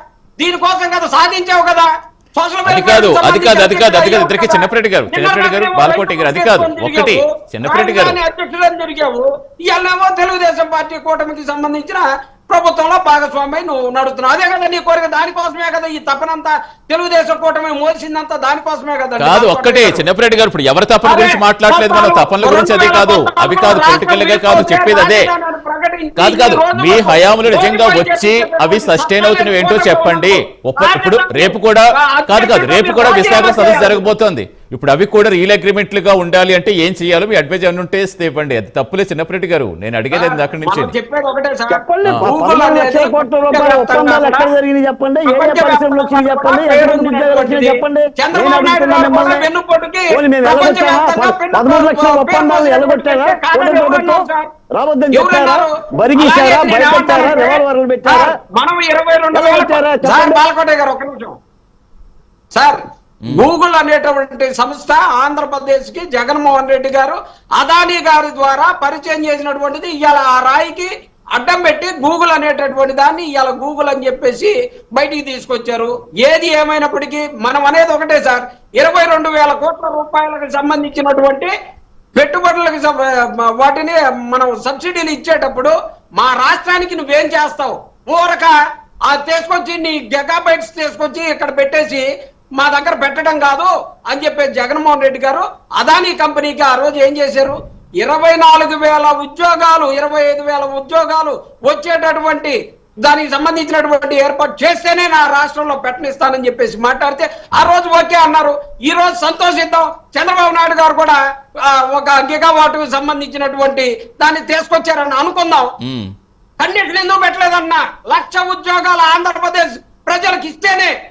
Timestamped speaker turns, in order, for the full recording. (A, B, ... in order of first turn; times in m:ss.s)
0:00.4-0:20.0 A
0:02.7-0:08.2 B
0:19.2-0:25.3 B
0:21.0-0:34.1 A
0:26.2-0:40.9 B
0:40.1-0:44.5 A
0:41.7-0:49.5 C
0:42.0-0:42.3 B
0:45.3-0:54.5 A
0:50.1-0:54.2 C
0:54.8-0:58.3 C
0:55.1-1:01.4 A
0:59.3-1:00.4 C
1:02.5-1:21.5 A
1:22.2-1:28.6 A
1:29.1-1:55.7 A
1:55.8-1:56.1 B
1:56.6-2:00.9 A